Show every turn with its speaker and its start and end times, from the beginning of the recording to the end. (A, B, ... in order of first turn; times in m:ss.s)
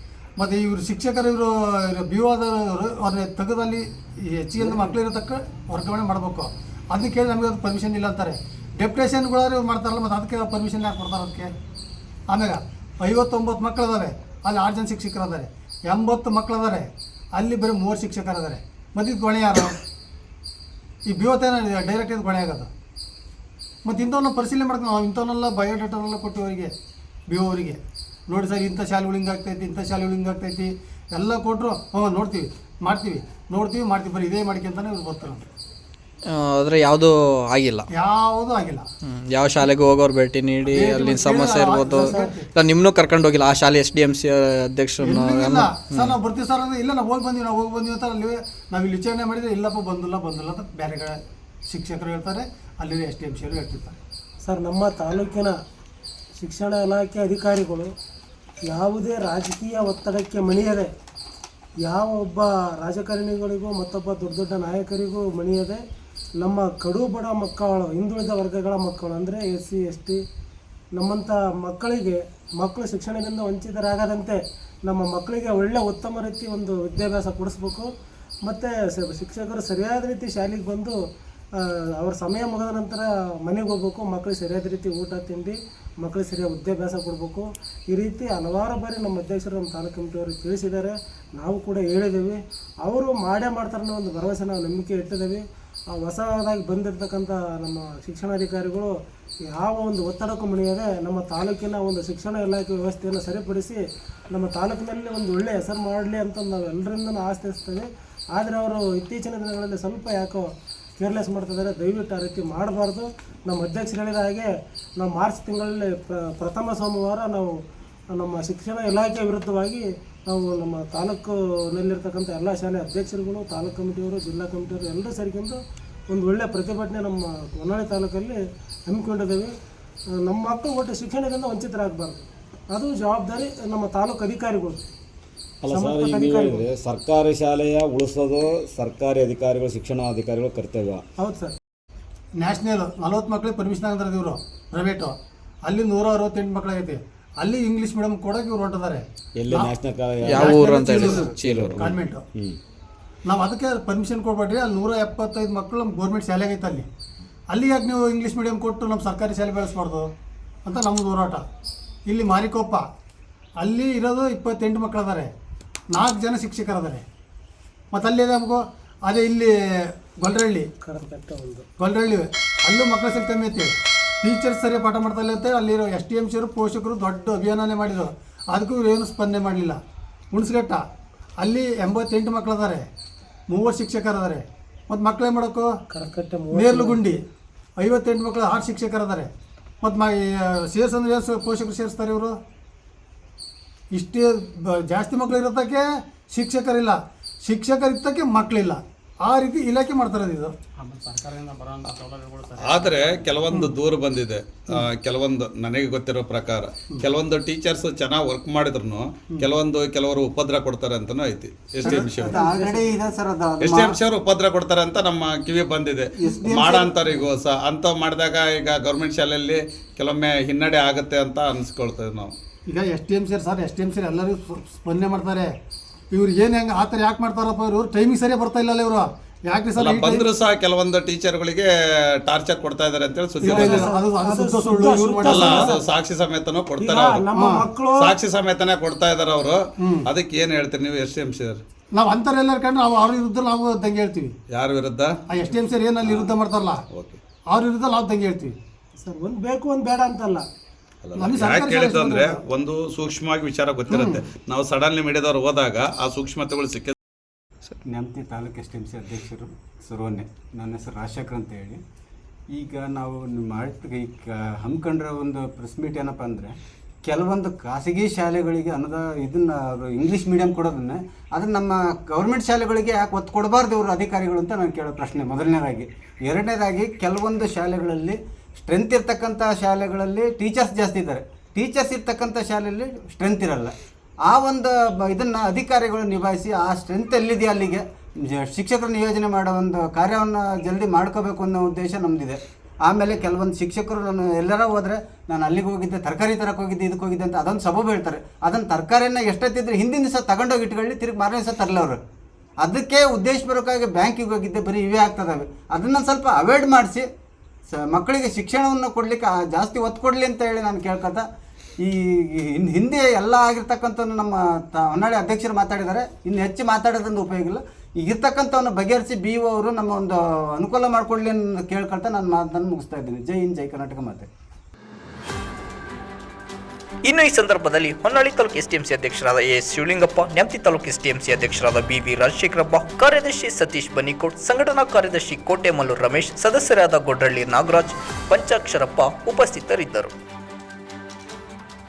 0:00.4-0:11.5 A
0:12.3-0:19.8 A
0:21.1-0:22.7 A
0:23.8-0:26.7 A
0:27.3-0:35.5 A
0:36.3-0:37.9 B
0:37.9-0:38.8 A
0:39.1-0:46.1 B
0:40.7-0:42.5 A
0:41.9-0:42.3 C
0:45.0-0:54.0 A
0:54.4-0:55.5 C
0:56.4-0:57.9 C
0:58.7-1:00.9 C
1:01.8-1:05.8 C
1:06.4-1:10.2 C
1:11.0-1:17.9 C
1:18.4-1:21.0 C
1:21.6-1:39.0 C
1:39.5-1:43.8 C
1:44.3-1:57.6 C
1:58.1-2:05.6 C
2:06.1-2:09.5 C
2:10.2-2:14.8 C
2:15.6-2:21.0 D
2:15.7-2:16.7 C
2:21.2-2:21.5 C
2:22.4-2:29.7 A
2:29.4-2:32.6 D
2:30.2-2:31.8 B
2:30.4-2:32.2 A
2:33.2-2:36.9 A
2:37.5-2:40.1 A
2:40.7-2:41.4 A
2:42.1-2:42.8 A
2:43.6-2:45.3 A
2:45.9-2:47.0 A
2:47.9-2:50.7 A
2:50.8-2:51.7 C
2:51.8-2:59.8 A
3:00.3-3:00.8 A
3:01.4-3:02.9 A
3:03.5-3:05.7 A
3:05.9-3:07.1 C
3:06.5-3:07.2 A
3:07.8-3:09.3 A
3:09.8-3:12.4 A
3:13.9-3:23.7 A
3:22.6-3:32.4 E
3:31.8-3:33.9 F
3:31.8-3:32.9 C
3:33.6-3:42.3 E
3:36.2-3:37.2 F
3:42.7-3:45.5 A
3:46.1-3:50.3 A
3:49.8-3:51.7 E
3:52.2-3:53.8 E
3:53.4-3:55.8 A
3:53.5-3:55.8 C
3:55.2-3:57.2 E
3:56.8-3:58.2 C
3:57.3-3:57.6 A
3:58.0-4:01.6 E
3:59.8-4:00.1 A
4:02.0-4:04.4 A
4:04.5-4:05.2 E
4:05.3-4:06.8 A
4:06.0-4:06.3 E
4:06.9-4:07.2 E
4:07.5-4:08.6 A
4:09.0-4:10.4 C
4:11.0-4:16.9 E
4:11.2-4:12.4 A
4:13.9-4:14.2 A
4:17.9-4:21.8 F
4:22.6-4:26.5 F
4:27.1-4:43.7 F
4:44.3-5:02.0 F
5:02.6-5:07.1 F
5:07.7-5:11.2 F
5:11.8-5:24.3 F
5:27.1-5:40.1 G